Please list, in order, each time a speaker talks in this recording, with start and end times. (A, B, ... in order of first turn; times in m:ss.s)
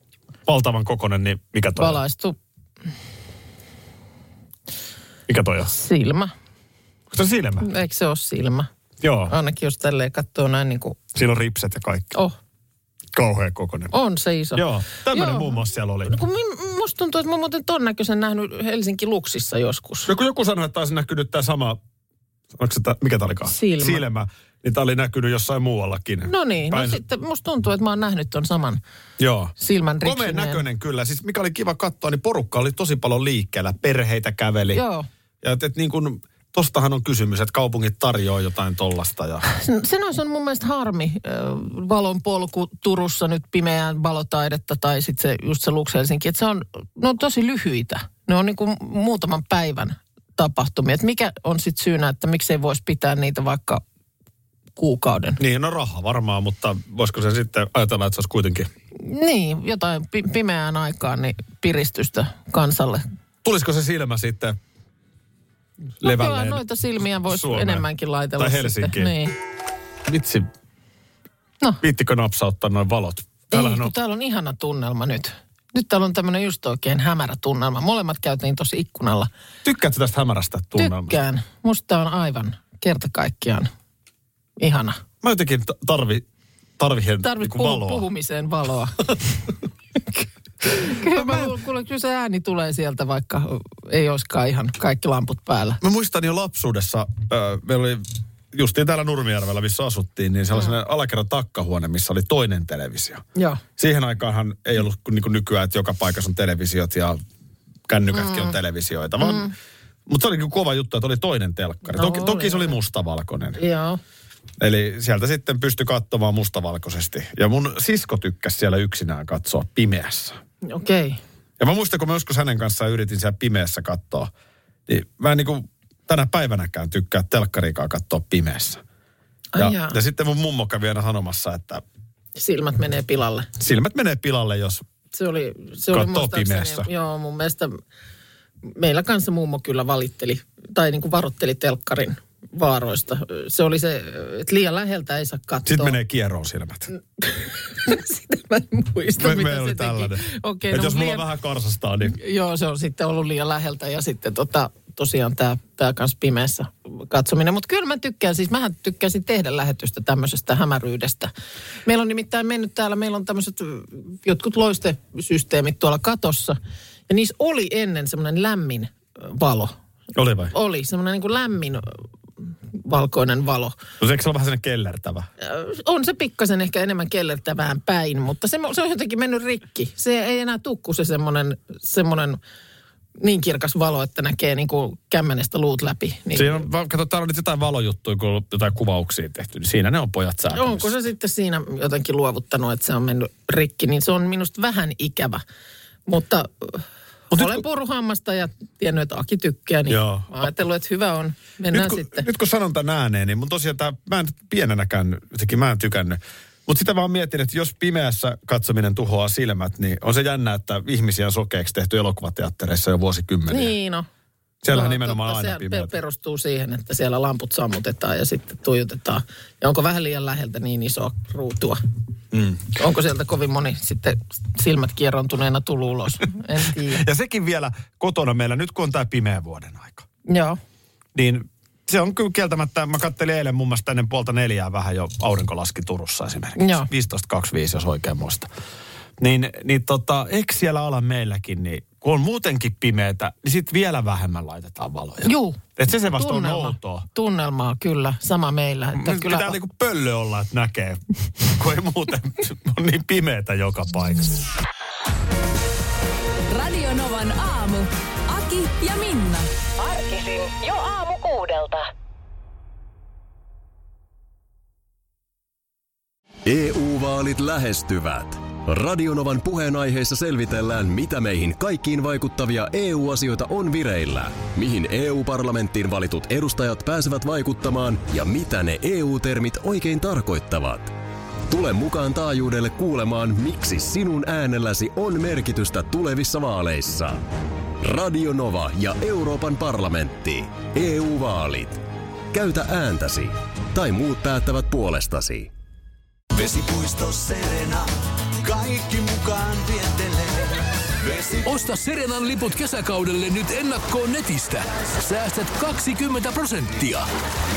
0:00.5-0:02.0 A
0:01.8-0:02.4 B
0:05.3-0:05.7 A
0:05.7-0:06.3 B
0:07.1-0:07.7 A
0:07.6-0:08.7 B
0:09.0-0:09.4 A
0:09.3-0:11.0 B
0:11.1-0:12.1 A
0:13.1-0:13.9 A
0:13.9-0:15.6 B
0:14.6-0:16.2 A
0:16.1-0:20.1 B
0:20.1-0:21.8 A
0:22.6-0:27.0 A
0:23.5-0:24.0 B
0:26.2-0:28.8 B
0:29.2-0:34.8 A
0:29.6-0:30.6 B
0:34.7-0:35.1 B
0:35.4-0:39.4 A
0:39.4-0:53.8 B
0:54.8-0:55.4 B
0:55.4-0:58.7 A
0:59.0-1:03.0 B
1:03.4-1:04.6 A
1:06.0-1:06.6 A
1:06.0-1:09.4 B
1:07.2-1:07.9 A
1:08.4-1:09.2 A
1:10.1-1:10.5 A
1:11.8-1:13.9 A
1:13.5-1:19.3 B
1:19.6-1:21.2 A
1:20.8-1:23.7 B
1:24.6-1:25.0 B
1:25.2-1:26.3 A
1:26.8-1:28.1 A
1:27.2-1:29.3 B
1:30.6-1:35.8 B
1:30.8-1:31.6 A
1:35.8-1:43.2 A
1:43.4-1:43.6 B
1:43.8-1:47.2 A
1:47.9-1:49.5 A
1:48.1-1:48.5 B
1:49.2-1:49.5 B
1:50.1-1:53.6 A
1:51.9-1:52.8 B
1:53.6-1:54.0 B
1:54.6-2:00.4 A
2:00.6-2:01.2 B
2:01.6-2:04.3 A
2:04.9-2:08.8 A
2:09.5-2:10.0 B
2:09.6-2:11.8 A
2:12.4-2:13.5 B
2:13.6-2:14.8 A
2:15.1-2:17.8 B
2:15.9-2:16.9 A
2:18.6-2:26.0 B
2:25.7-2:26.9 A
2:27.2-2:31.3 B
2:29.2-2:32.2 A
2:32.1-2:41.3 B
2:41.8-2:46.6 B
2:47.1-2:49.8 B
2:50.2-2:50.5 A
2:50.5-2:53.8 B
2:54.0-2:55.3 A
2:55.4-3:02.4 B
3:03.2-3:06.6 B
3:06.3-3:11.0 A
3:10.5-3:15.4 B
3:16.1-3:22.3 B
3:17.3-3:17.6 A
3:19.9-3:20.5 A
3:21.7-3:33.8 A
3:33.5-3:34.1 B
3:34.6-3:35.9 A
3:34.7-3:41.8 B
3:42.3-3:42.7 A
3:42.7-3:47.0 B
3:46.7-3:50.1 A
3:50.3-3:50.6 B
3:51.2-3:58.5 A
3:56.6-3:56.9 B
3:59.2-4:07.1 A
4:05.2-4:09.6 B
4:09.0-4:14.5 A
4:16.5-4:19.5 C
4:19.8-4:21.8 D
4:26.5-4:40.9 E
4:41.5-4:47.3 E
4:47.8-4:51.8 E
4:52.3-4:55.5 E
4:56.3-4:57.9 F
4:58.4-5:01.5 F
5:01.5-5:07.1 G